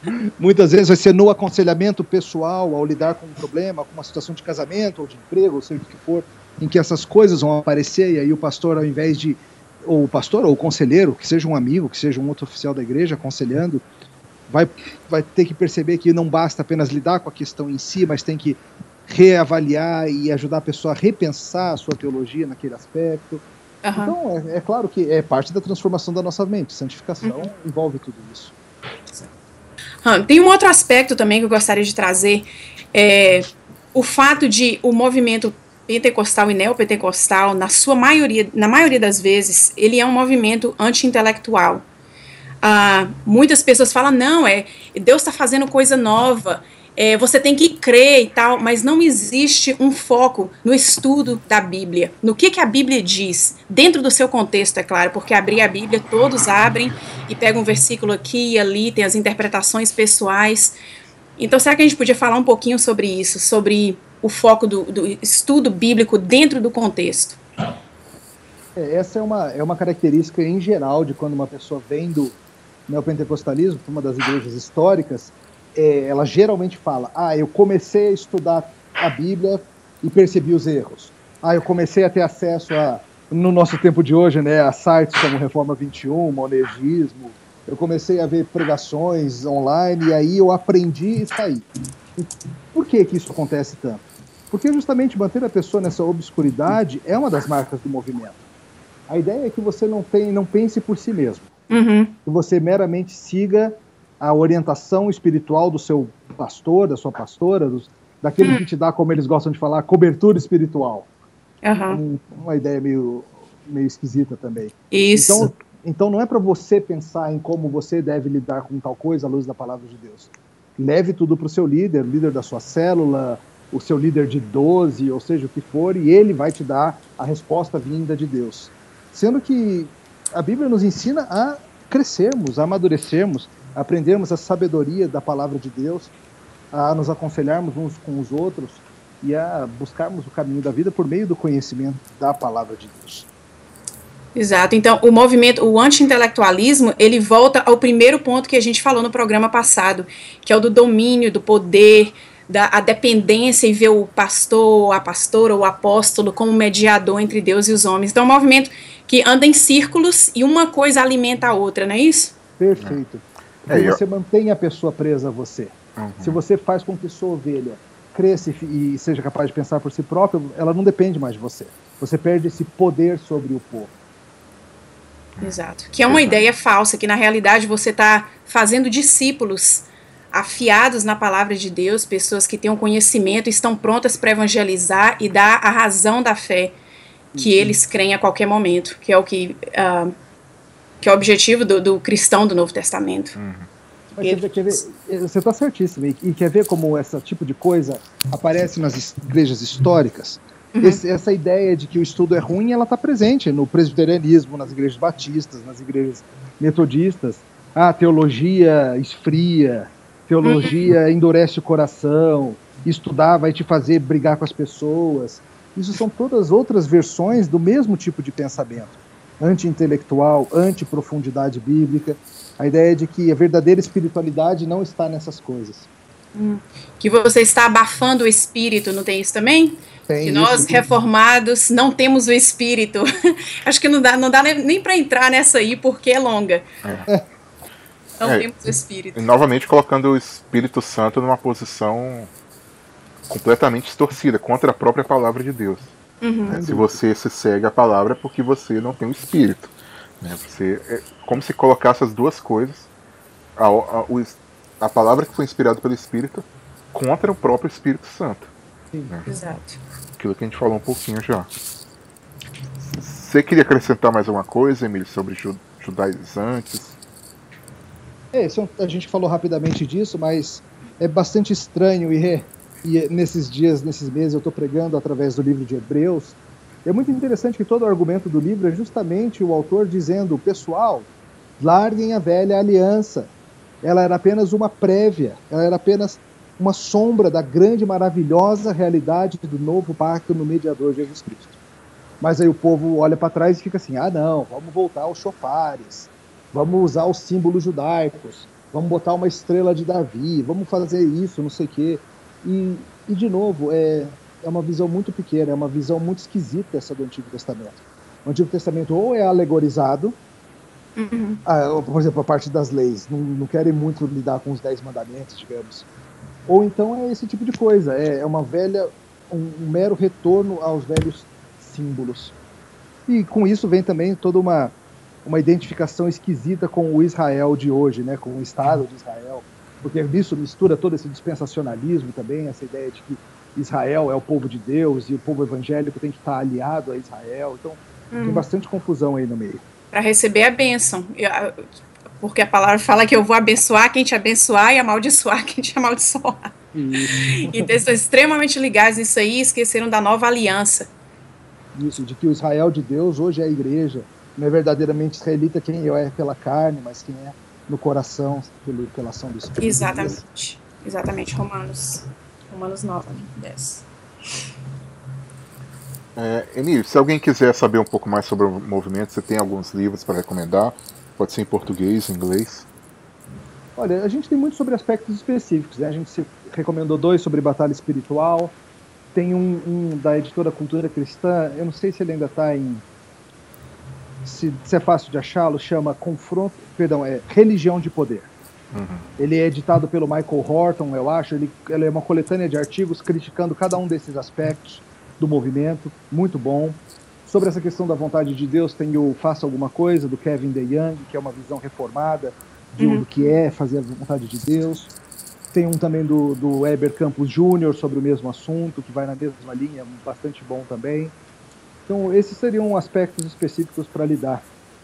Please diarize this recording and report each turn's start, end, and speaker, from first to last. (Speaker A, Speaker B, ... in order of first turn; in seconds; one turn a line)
Speaker A: 0.4-13.8
Speaker A: 14.5-23.4
Speaker B: 23.8-24.1
Speaker A: 24.0-28.5
Speaker B: 27.2-27.5
Speaker B: 30.1-41.9
Speaker B: 42.6-60.8
Speaker B: 61.4-67.4
Speaker A: 68.8-72.4
Speaker A: 72.9-98.4
Speaker A: 99.1-101.5
Speaker B: 101.7-102.2
Speaker A: 102.3-111.1
Speaker B: 111.6-112.0
Speaker A: 111.9-136.1
Speaker B: 114.9-115.5
Speaker A: 136.7-143.3
Speaker B: 144.4-162.3
Speaker A: 162.6-173.9
Speaker C: 163.7-164.0
Speaker C: 166.0-166.4
Speaker C: 175.4-176.4
Speaker B: 175.4-186.8
Speaker A: 187.4-187.8
Speaker B: 187.4-190.1
Speaker B: 191.0-193.4
Speaker C: 193.4-193.7
Speaker A: 194.2-225.9
Speaker B: 194.2-194.8
Speaker B: 200.8-201.0
Speaker B: 210.4-210.9
Speaker B: 226.3-236.7
Speaker A: 230.1-230.9
Speaker B: 238.2-239.2
Speaker C: 238.2-238.5
Speaker C: 239.1-242.3
Speaker C: 243.3-245.9
Speaker B: 246.2-246.6
Speaker C: 246.5-252.9
Speaker A: 246.5-247.0
Speaker C: 253.6-258.5
Speaker B: 259.2-259.8
Speaker C: 260.2-261.5
Speaker C: 262.9-267.0
Speaker A: 268.3-281.1
Speaker A: 281.6-283.3
Speaker A: 283.8-291.6
Speaker A: 292.2-310.2
Speaker B: 311.0-311.4
Speaker A: 311.5-315.9
Speaker A: 316.5-322.3
Speaker A: 323.1-339.6
Speaker B: 338.1-338.4
Speaker B: 339.9-341.6
Speaker B: 342.2-346.5
Speaker A: 346.7-347.7
Speaker B: 347.3-350.9
Speaker A: 351.8-360.2
Speaker B: 359.6-363.9
Speaker C: 366.2-372.7
Speaker A: 373.8-378.6
Speaker A: 379.1-382.8
Speaker A: 384.2-388.3
Speaker C: 388.7-389.1
Speaker A: 389.2-404.9
Speaker B: 402.8-403.1
Speaker A: 405.5-411.1
Speaker A: 411.9-414.4